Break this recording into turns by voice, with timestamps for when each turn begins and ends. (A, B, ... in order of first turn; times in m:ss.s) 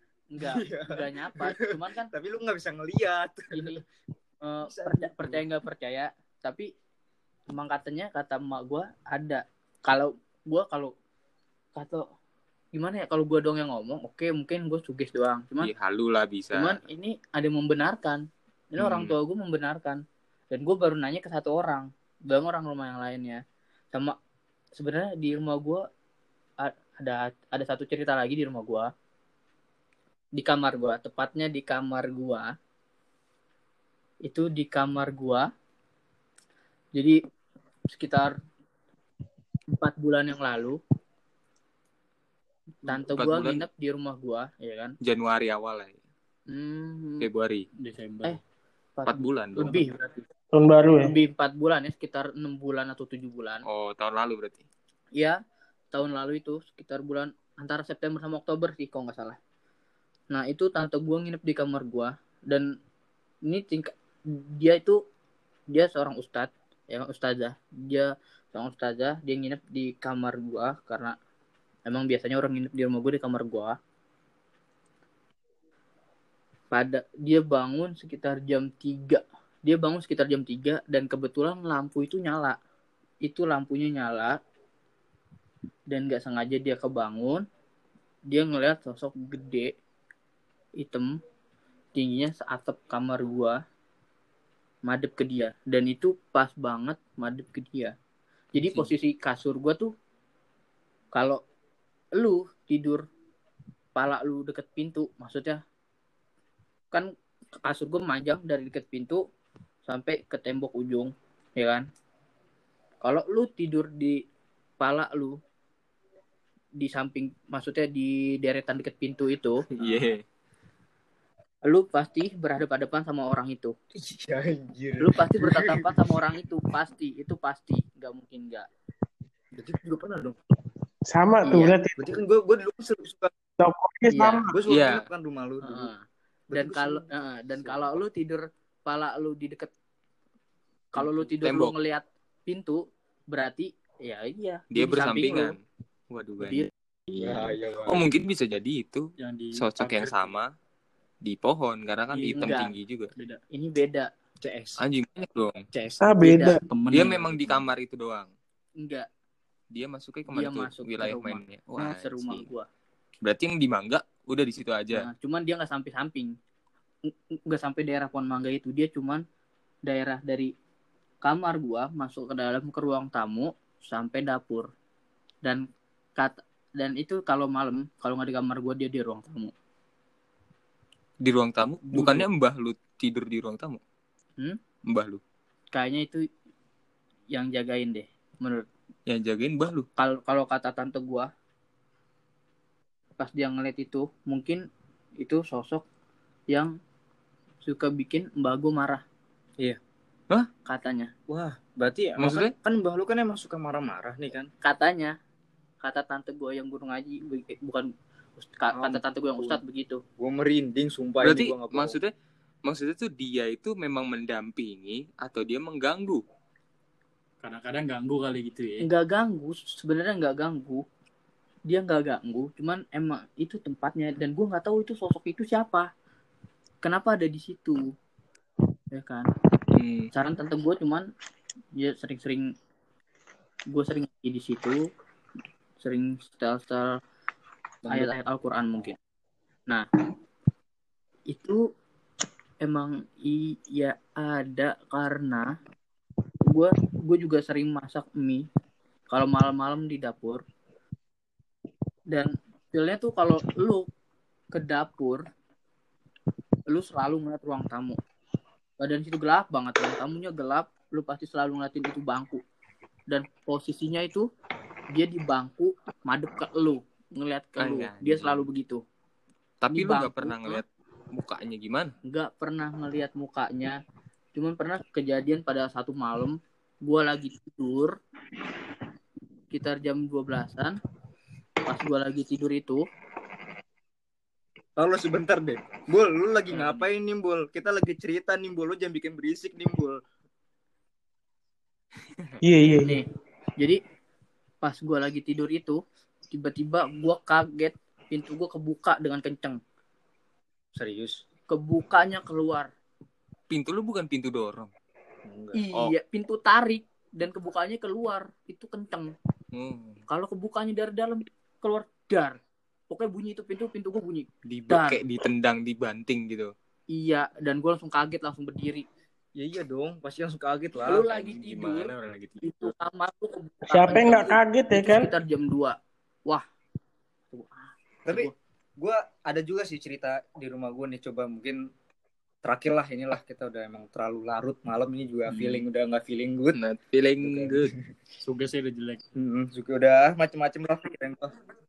0:00.3-0:02.1 A
0:00.4-0:03.8 B
0:03.5-0:03.8 A
0:04.4-0:06.7 A
0:04.7-0:05.4 B
0:07.5-0:10.9 A
0:11.8-0:12.0 A
0:12.7-0:15.7 A
0:15.6-0:16.8 C
0:16.5-0:23.4 A
0:18.8-0:19.2 C
0:24.8-0:25.8 A
0:26.6-0:28.9 A
0:30.4-0:32.5 A
0:34.2-0:35.5 A
0:37.9-0:38.3 A
0:39.7-0:40.8 A
0:42.8-0:45.0 A
0:42.9-0:43.6 C
0:45.0-0:46.0 C
0:46.5-0:47.3 A
0:47.2-0:47.7 C
0:47.8-0:48.4 D
0:49.0-0:50.2 A
0:49.0-0:49.8 C
0:50.5-0:51.1 E
0:51.0-0:53.6 A
0:53.6-0:54.6 C
0:55.9-0:59.4 A
1:00.3-1:02.7 A
1:03.4-1:05.0 A
1:05.7-1:11.2 A
1:11.9-1:13.8 A
1:16.7-1:22.6 A
1:23.2-1:24.4 A
1:25.9-1:27.4 A
1:28.3-1:29.7 A
1:30.8-1:31.2 A
1:31.9-1:33.6 A
1:34.8-1:37.9 A
1:38.5-1:39.9 A
1:41.1-1:41.4 A
1:42.1-1:43.0 A
1:44.0-1:45.6 A
1:47.6-1:49.2 A
1:49.8-1:51.8 A
1:53.0-1:54.2 A
1:54.8-1:55.4 A
1:56.8-1:59.6 A
1:59.7-2:00.2 C
2:01.6-2:03.7 A
2:03.9-2:06.1 B
2:05.0-2:08.7 A
2:09.5-2:10.4 B
2:11.1-2:12.2 E
2:11.4-2:11.8 A
2:12.0-2:13.3 B
2:13.6-2:14.6 E
2:14.1-2:14.4 A
2:14.4-2:15.9 B
2:14.7-2:15.1 C
2:15.6-2:19.7 A
2:16.5-2:18.0 B
2:20.9-2:25.5 A
2:21.0-2:21.7 C
2:24.7-2:25.6 C
2:26.1-2:30.5 C
2:26.4-2:26.7 A
2:27.2-2:28.0 B
2:29.2-2:30.4 D
2:31.2-2:33.1 C
2:32.1-2:32.5 D
2:32.1-2:32.7 A
2:33.2-2:33.4 D
2:33.5-2:34.1 A
2:34.4-2:34.8 B
2:34.8-2:35.7 C
2:35.7-2:36.5 B
2:36.0-2:36.6 E
2:36.2-2:36.6 A
2:36.7-2:37.6 D
2:36.9-2:38.3 C
2:38.8-2:39.1 A
2:39.7-2:42.4 C
2:40.3-2:42.6 A
2:43.2-2:45.1 C
2:44.9-2:46.3 A
2:47.1-2:49.2 A
2:49.8-2:50.5 A
2:51.2-2:54.7 A
2:56.2-2:59.5 A
3:01.2-3:03.8 C
3:04.9-3:05.2 C
3:05.7-3:06.2 A
3:07.3-3:08.7 A
3:09.1-3:09.9 C
3:10.0-3:11.3 A
3:13.2-3:14.6 A
3:15.2-3:15.8 A
3:17.6-3:19.0 A
3:20.6-3:21.1 A
3:21.3-3:24.5 B
3:22.2-3:22.5 C
3:24.6-3:25.1 A
3:25.8-3:27.9 A
3:28.5-3:30.0 A
3:28.7-3:29.6 B
3:30.2-3:32.0 B
3:31.2-3:32.1 C
3:32.6-3:36.2 C
3:37.4-3:38.8 D
3:38.8-3:40.8 A
3:41.7-3:45.9 A
3:46.8-3:47.9 A
3:48.9-3:49.3 A
3:49.7-3:50.1 C
3:50.1-3:51.1 A
3:51.7-3:52.5 A
3:53.7-3:54.8 A
3:55.8-3:57.0 A
3:57.8-3:59.0 A
4:01.3-4:01.6 A
4:02.6-4:05.5 A
4:06.5-4:08.4 A
4:09.1-4:10.4 A
4:12.1-4:13.9 A
4:14.5-4:15.2 A
4:16.7-4:18.0 A
4:18.8-4:22.4 A
4:23.1-4:24.3 A
4:24.9-4:28.8 A
4:27.6-4:28.5 C
4:29.6-4:31.9 C
4:29.7-4:30.6 A
4:32.0-4:33.8 A
4:34.3-4:38.0 A
4:39.5-4:40.8 A
4:41.6-4:42.8 A
4:44.8-4:50.0 B
4:52.4-4:53.0 E
4:52.6-4:53.0 A
4:54.6-4:59.6 A
5:00.7-5:01.2 B
5:01.5-5:02.7 A
5:03.5-5:04.7 C
5:05.2-5:05.6 B
5:05.5-5:09.1 A
5:09.5-5:10.0 C
5:10.1-5:12.4 A
5:12.9-5:15.0 A
5:14.4-5:16.5 C
5:16.9-5:18.8 A
5:19.4-5:21.0 B
5:20.8-5:22.7 C
5:20.8-5:25.8 A
5:23.7-5:25.1 E
5:27.3-5:28.3 A
5:28.1-5:31.6 B
5:32.4-5:36.6 B
5:35.3-5:35.6 D
5:36.5-5:37.7 C
5:37.2-5:37.8 B
5:38.2-5:39.0 D
5:39.2-5:41.3 B